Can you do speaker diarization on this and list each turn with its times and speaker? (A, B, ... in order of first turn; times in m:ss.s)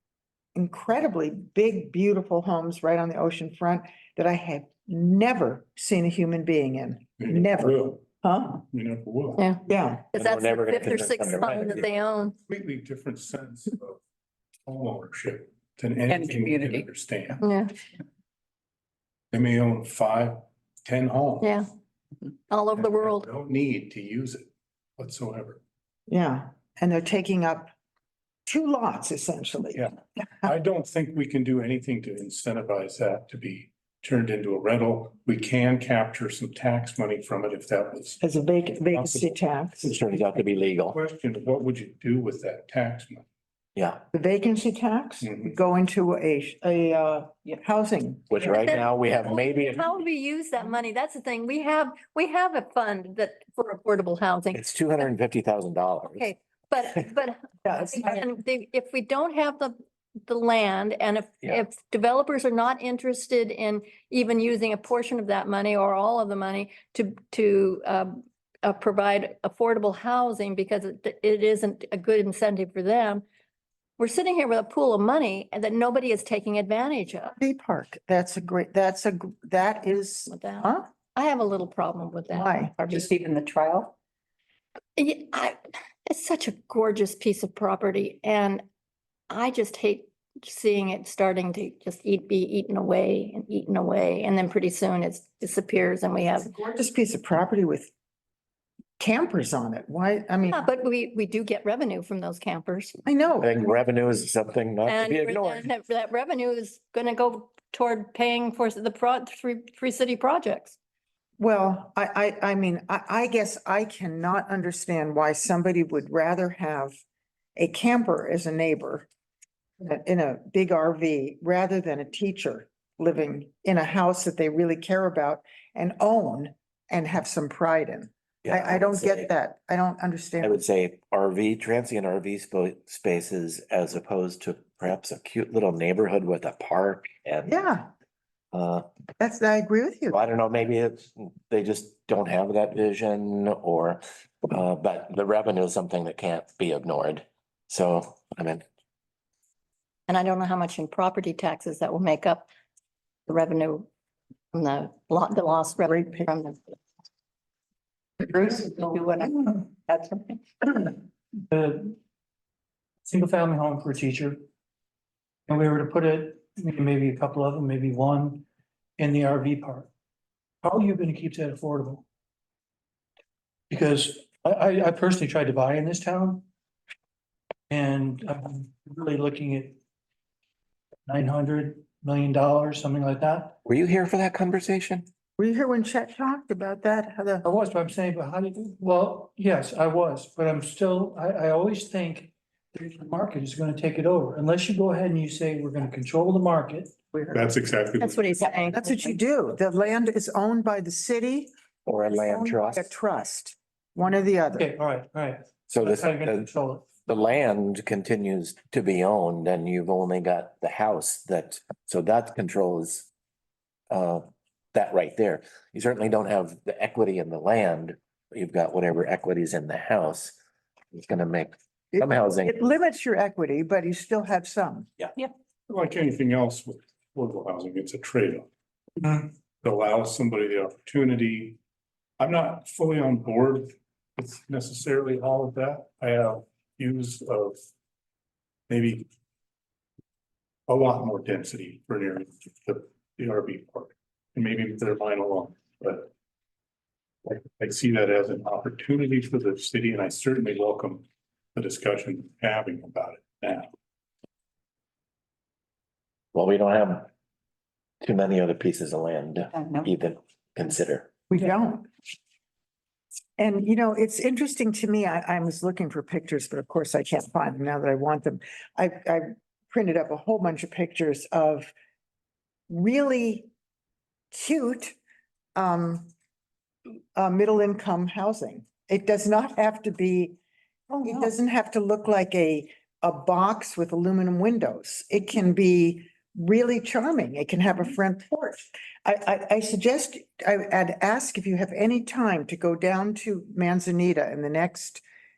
0:00.5-0:08.6 A
0:07.2-0:08.0 B
0:08.7-0:09.4 B
0:09.4-0:12.4 C
0:09.7-0:10.1 A
0:10.1-0:11.8 D
0:12.5-0:14.0 B
0:14.6-0:17.4 B
0:16.1-0:16.8 E
0:17.4-0:17.7 C
0:19.3-0:21.6 B
0:21.4-0:21.6 C
0:22.5-0:23.3 C
0:22.7-0:25.6 B
0:26.1-0:27.7 A
0:28.4-0:29.8 A
0:29.7-0:38.2 B
0:38.2-0:39.9 A
0:38.9-0:39.3 B
0:39.8-0:41.0 D
0:40.9-0:43.2 B
0:43.8-0:44.0 D
0:44.1-0:48.5 A
0:45.2-0:45.5 B
0:48.3-0:49.8 D
0:48.4-0:54.6 C
0:54.5-0:56.3 D
0:56.1-1:13.2 C
0:57.6-0:58.1 A
1:14.0-1:17.4 C
1:17.4-1:20.8 A
1:20.3-1:23.1 C
1:22.3-1:23.1 A
1:23.0-1:23.9 E
1:25.0-1:28.6 C
1:29.3-1:36.5 C
1:36.3-1:37.9 A
1:39.0-1:40.6 A
1:40.5-1:43.0 C
1:43.0-1:43.5 A
1:43.4-1:45.7 D
1:44.8-1:50.8 C
1:51.4-1:57.0 A
1:57.6-1:59.1 A
1:59.8-2:10.6 A
2:08.4-2:09.3 D
2:10.4-2:17.6 D
2:17.4-2:17.9 A
2:18.5-2:18.8 D
2:19.2-2:20.2 A
2:20.1-2:28.6 D
2:30.1-2:32.5 C
2:33.3-2:33.9 C
2:34.5-2:36.7 C
2:35.9-2:36.3 A
2:39.0-2:39.3 E
2:41.5-2:42.0 F
2:43.0-2:44.4 F
2:45.5-2:48.4 F
2:49.0-2:49.9 F
2:50.6-2:52.0 F
2:53.7-2:56.4 F
2:57.7-2:59.8 F
3:01.0-3:03.6 F
3:03.6-3:05.0 D
3:05.4-3:07.4 A
3:07.4-3:17.0 F
3:17.3-3:18.4 B
3:18.4-3:21.5 A
3:21.8-3:22.9 D
3:22.2-3:24.7 A
3:24.5-3:26.9 F
3:25.7-3:26.5 D
3:27.0-3:33.1 D
3:33.9-3:40.4 D
3:40.9-3:42.5 D
3:41.9-3:44.9 A
3:45.7-3:48.5 B
3:49.0-3:51.6 B
3:52.2-3:57.6 B
3:58.7-3:59.1 B
4:00.7-4:06.1 B
4:07.2-4:11.0 B
4:11.5-4:13.7 B
4:16.3-4:17.1 D
4:18.0-4:21.1 D
4:21.3-4:21.9 A
4:23.4-4:31.7 A
4:32.7-4:33.5 A
4:34.3-4:35.0 A
4:35.5-4:36.1 A
4:37.2-4:40.4 A
4:41.0-4:55.0 A